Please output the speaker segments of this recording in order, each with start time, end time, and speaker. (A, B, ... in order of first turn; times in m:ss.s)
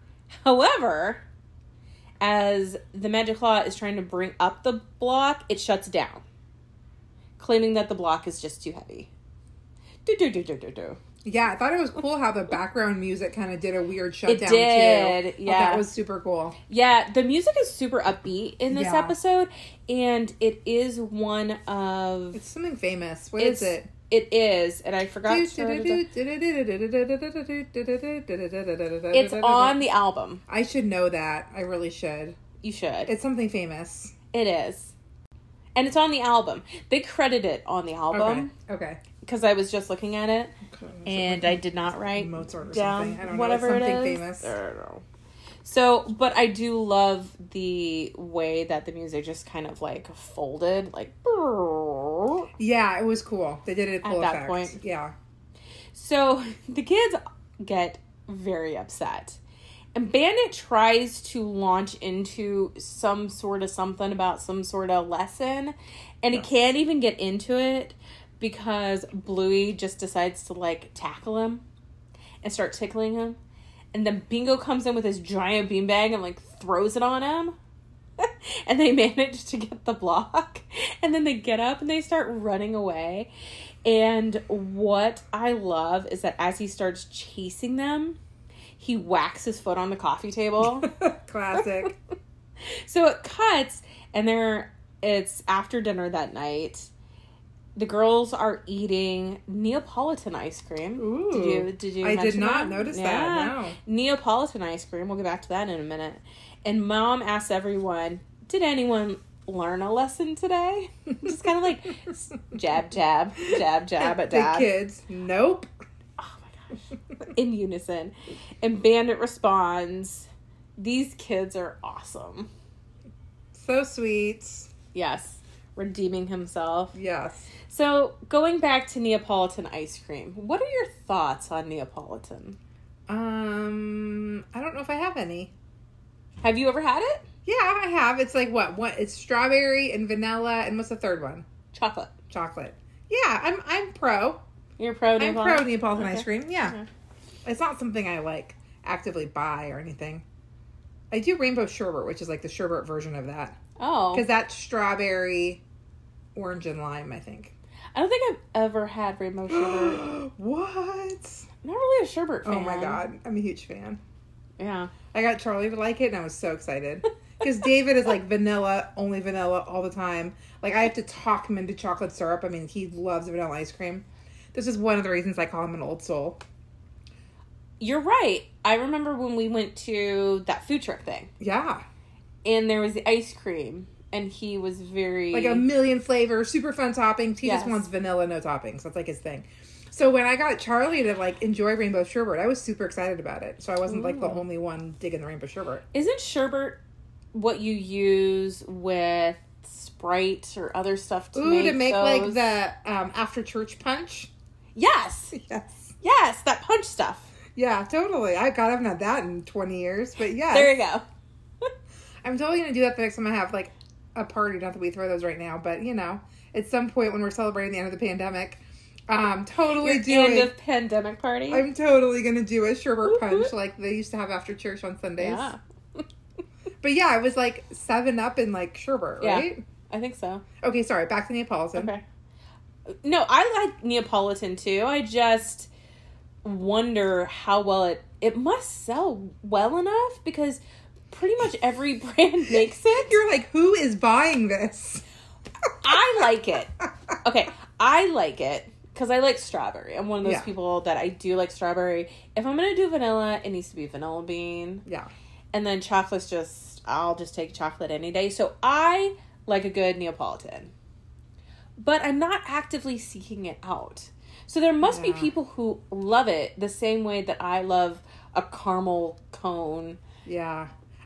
0:00.3-0:01.2 A
0:02.2-0:06.2 A
0:07.4-0:09.1 A
0:10.0-0:11.0 A
0:11.2-0:16.6 B
0:14.3-0:15.8 A
0:16.7-0:22.4 A
0:18.7-0:19.2 B
0:22.3-0:23.9 B
0:23.4-0:26.0 A
0:25.2-0:29.8 B
0:29.1-0:30.4 A
0:30.5-0:32.4 B
0:32.6-0:33.1 A
0:33.0-0:34.1 B
0:34.3-0:34.9 A
0:35.7-0:38.5 A
0:38.1-0:39.0 B
0:39.2-0:40.5 A
0:40.6-0:44.5 B
0:41.0-0:45.0 A
0:45.6-0:52.5 A
0:52.6-0:55.1 B
0:54.0-0:54.8 A
0:55.9-0:59.4 A
0:59.9-1:11.6 A
1:12.4-1:13.4 A
1:13.9-1:17.6 A
1:18.2-1:23.3 A
1:23.8-1:28.2 A
1:28.8-1:30.9 A
1:30.6-1:31.9 B
1:32.7-1:36.9 A
1:37.8-1:54.7 A
1:41.0-1:43.8 B
1:54.0-1:55.7 B
1:56.2-2:02.5 A
2:03.5-2:04.7 B
2:04.9-2:07.0 A
2:06.9-2:07.5 B
2:07.7-2:12.6 A
2:13.1-2:15.5 B
2:16.4-2:17.2 A
2:17.4-2:21.4 B
2:21.7-2:22.1 A
2:22.3-2:24.4 B
2:24.8-2:26.9 A
2:25.2-2:26.8 B
2:27.4-2:30.2 B
2:31.1-2:33.6 B
2:33.8-2:34.2 A
2:34.1-2:35.6 B
2:36.3-2:37.5 B
2:37.9-2:40.0 A
2:39.5-2:41.5 B
2:41.6-2:43.0 A
2:42.4-2:44.0 B
2:44.6-2:44.9 A
2:45.1-2:56.4 B
2:57.8-3:01.3 A
3:01.4-3:01.8 B
3:02.4-3:05.7 A
3:05.3-3:15.8 B
3:07.4-3:07.8 A
3:13.9-3:14.4 A
3:15.9-3:16.8 A
3:17.3-3:22.4 A
3:21.3-3:24.3 B
3:24.8-3:25.3 A
3:25.3-3:25.9 B
3:26.0-3:27.3 A
3:27.5-3:30.8 B
3:30.5-3:31.0 A
3:32.2-3:40.5 B
3:39.8-3:41.6 A
3:41.5-3:45.5 B
3:43.1-3:43.5 A
3:45.2-3:46.0 A
3:46.8-3:49.6 B
3:49.2-3:50.4 A
3:50.6-3:51.9 B
3:51.8-3:52.0 A
3:53.0-3:55.7 A
3:56.4-4:03.1 A
4:02.9-4:05.0 B
4:05.8-4:06.7 A
4:07.2-4:14.8 A
4:10.2-4:10.5 B
4:15.5-4:20.7 A
4:21.8-4:30.0 A
4:24.8-4:25.3 B
4:30.2-4:30.7 B